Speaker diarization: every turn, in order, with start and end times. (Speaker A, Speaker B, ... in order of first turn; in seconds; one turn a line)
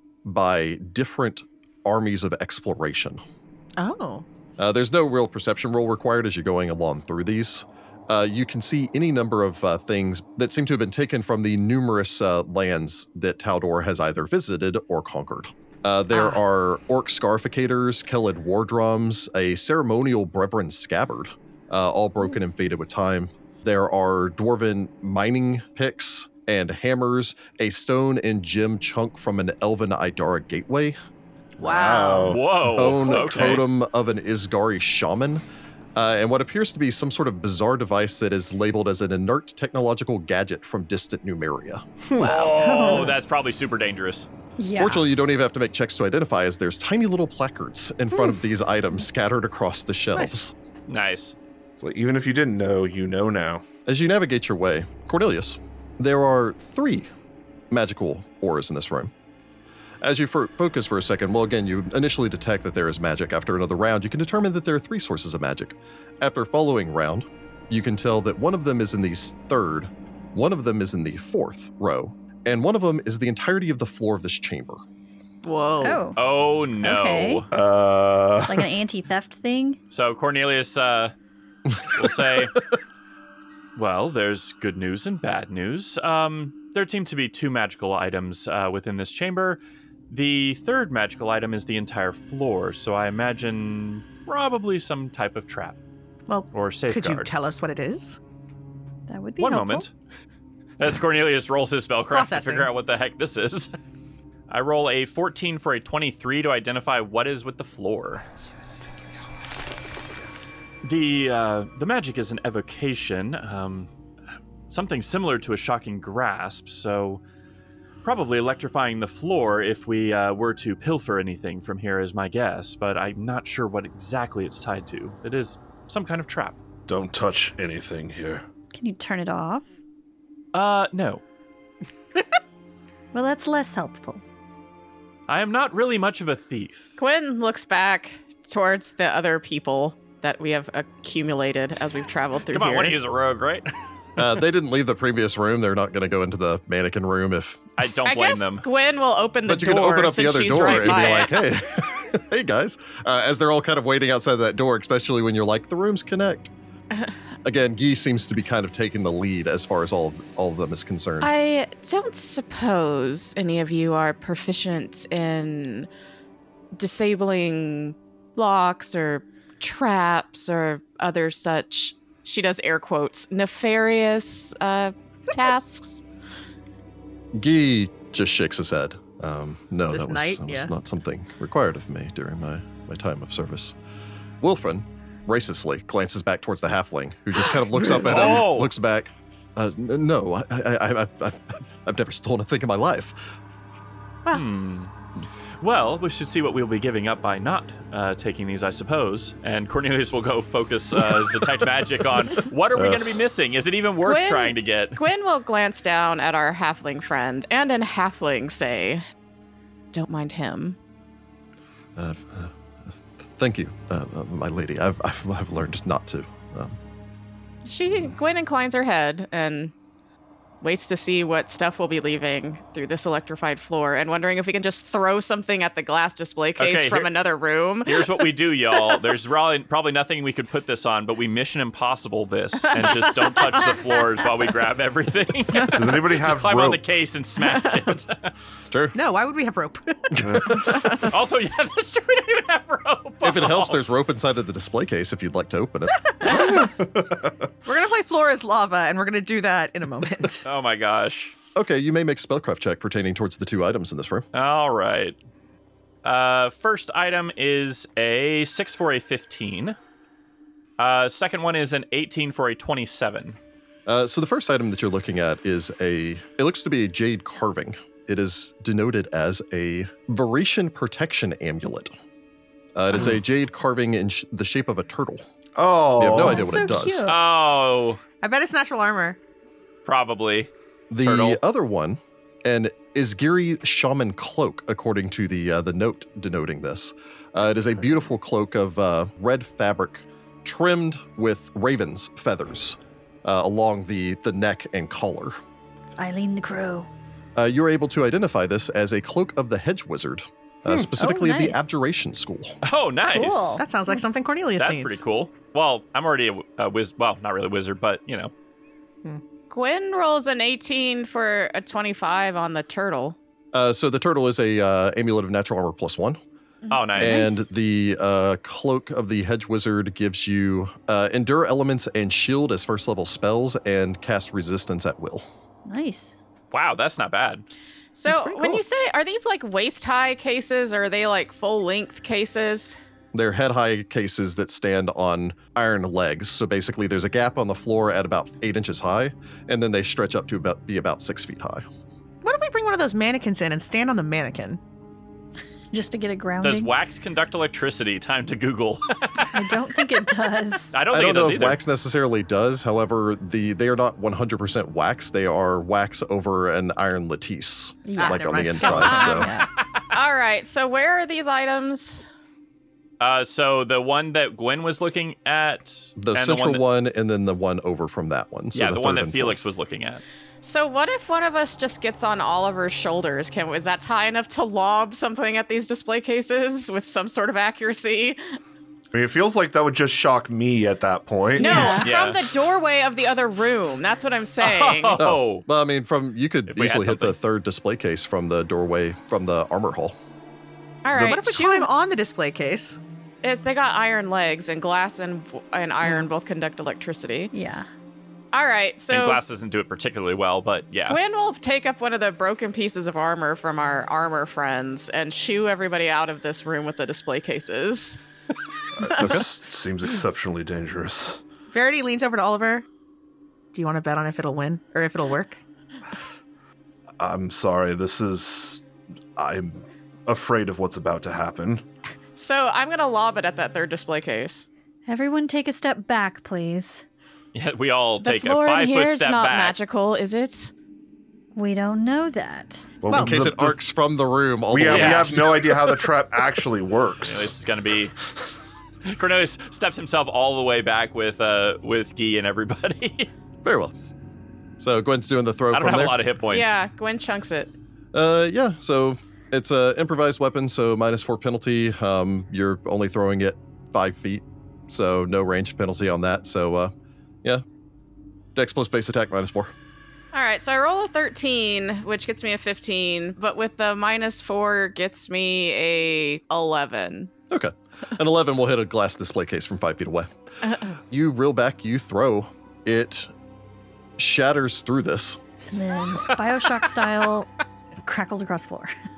Speaker A: 0.2-3.2
Speaker B: 3.8-4.2
Speaker A: 4.6-31.0
Speaker B: 16.1-16.4
Speaker B: 31.6-32.4
Speaker C: 31.6-32.4
Speaker D: 32.3-33.7
Speaker A: 32.7-35.4
Speaker A: 36.0-41.8
Speaker B: 42.1-43.2
Speaker D: 42.2-44.3
Speaker E: 44.6-45.0
Speaker A: 44.8-50.5
Speaker D: 50.9-51.4
Speaker C: 51.8-53.6
Speaker A: 53.9-57.1
Speaker A: 57.7-59.1
Speaker A: 60.0-74.8
Speaker B: 75.4-76.0
Speaker E: 75.8-76.2
Speaker D: 76.2-77.5
Speaker E: 76.8-77.5
Speaker C: 77.5-78.7
Speaker E: 78.5-79.8
Speaker D: 79.9-81.1
Speaker D: 81.8-82.6
Speaker D: 83.8-95.8
Speaker B: 96.3-98.2
Speaker D: 96.5-97.3
Speaker E: 99.1-99.9
Speaker D: 99.4-99.9
Speaker D: 100.8-103.7
Speaker B: 102.1-102.7
Speaker D: 104.5-108.2
Speaker D: 110.8-113.9
Speaker D: 114.7-117.2
Speaker D: 118.0-126.6
Speaker C: 126.9-128.4
Speaker E: 128.7-129.7
Speaker D: 130.5-131.2
Speaker E: 133.1-134.2
Speaker D: 135.3-136.9
Speaker F: 137.0-143.0
Speaker D: 142.5-143.7
Speaker A: 144.2-147.6
Speaker D: 147.8-148.7
Speaker F: 148.1-151.4
Speaker A: 149.5-156.5
Speaker A: 157.4-161.3
Speaker F: 161.2-165.9
Speaker F: 166.8-176.0
Speaker A: 177.3-183.8
Speaker B: 179.9-180.7
Speaker A: 184.4-193.4
Speaker D: 187.9-188.7
Speaker D: 194.3-194.9
Speaker D: 195.6-205.0
Speaker C: 202.8-203.2
Speaker F: 204.0-209.0
Speaker F: 209.9-210.8
Speaker A: 212.0-216.8
Speaker F: 217.7-219.7
Speaker F: 220.6-228.2
Speaker D: 226.6-227.1
Speaker D: 227.8-238.3
Speaker F: 232.7-233.8
Speaker C: 235.7-236.8
Speaker A: 238.6-239.0
Speaker B: 238.9-241.0
Speaker A: 240.2-240.6
Speaker C: 240.3-240.5
Speaker D: 240.5-243.8
Speaker A: 243.2-246.5
Speaker B: 246.2-246.7
Speaker C: 246.3-247.4
Speaker B: 247.7-250.4
Speaker D: 250.4-251.3
Speaker A: 251.6-254.3
Speaker D: 254.3-255.2
Speaker D: 256.0-259.8
Speaker D: 260.8-263.4
Speaker A: 263.9-271.9
Speaker A: 272.8-275.3
Speaker C: 275.6-276.6
Speaker A: 276.0-277.1
Speaker E: 276.1-277.2
Speaker D: 277.1-278.0
Speaker B: 278.2-279.2
Speaker D: 279.9-281.4
Speaker A: 280.9-295.4
Speaker E: 295.9-296.9
Speaker A: 297.4-302.6
Speaker E: 301.0-301.7
Speaker D: 302.6-303.6
Speaker E: 303.1-303.6
Speaker B: 303.6-305.0
Speaker D: 304.6-308.3
Speaker F: 309.5-313.2
Speaker A: 313.5-316.2
Speaker D: 316.7-317.3
Speaker E: 316.9-317.5
Speaker A: 317.0-325.2
Speaker E: 325.7-326.1
Speaker D: 326.5-327.4
Speaker F: 327.9-332.8
Speaker A: 333.1-341.7
Speaker B: 342.2-344.6
Speaker E: 345.7-346.7
Speaker D: 346.4-349.5
Speaker E: 349.3-350.8
Speaker D: 350.7-351.6
Speaker A: 350.9-359.3
Speaker E: 357.9-359.5
Speaker B: 358.0-359.2
Speaker F: 358.8-359.4
Speaker F: 359.9-362.0
Speaker D: 363.0-366.6
Speaker A: 366.0-369.4
Speaker D: 368.5-370.0
Speaker F: 370.4-378.2
Speaker C: 378.9-381.8
Speaker F: 381.4-385.0
Speaker E: 381.4-381.8
Speaker D: 381.7-382.2
Speaker D: 384.4-385.4
Speaker A: 385.0-390.0
Speaker D: 386.5-387.2
Speaker F: 390.8-391.7
Speaker B: 391.0-392.8
Speaker F: 393.2-397.3
Speaker E: 397.3-397.7
Speaker F: 398.3-399.2
Speaker D: 398.9-401.0
Speaker F: 400.9-408.0
Speaker C: 408.8-411.2
Speaker A: 409.0-409.3
Speaker B: 411.5-412.6
Speaker B: 413.5-415.4
Speaker C: 417.0-418.6
Speaker C: 419.2-421.6
Speaker F: 422.1-424.5
Speaker E: 424.9-426.9
Speaker D: 427.3-429.6
Speaker F: 428.0-430.5
Speaker E: 431.4-432.8
Speaker C: 432.8-433.6
Speaker A: 432.9-435.9
Speaker B: 432.9-433.2
Speaker C: 434.5-437.4
Speaker D: 434.6-435.1
Speaker D: 437.0-437.9
Speaker D: 438.9-443.1
Speaker A: 443.4-443.8
Speaker A: 444.6-446.0
Speaker D: 445.5-446.6
Speaker F: 446.3-447.5
Speaker A: 447.9-456.7
Speaker A: 458.4-459.5
Speaker F: 460.1-467.1
Speaker A: 467.3-470.1
Speaker A: 470.9-473.1
Speaker A: 474.0-475.2
Speaker E: 475.5-477.3
Speaker E: 477.8-478.7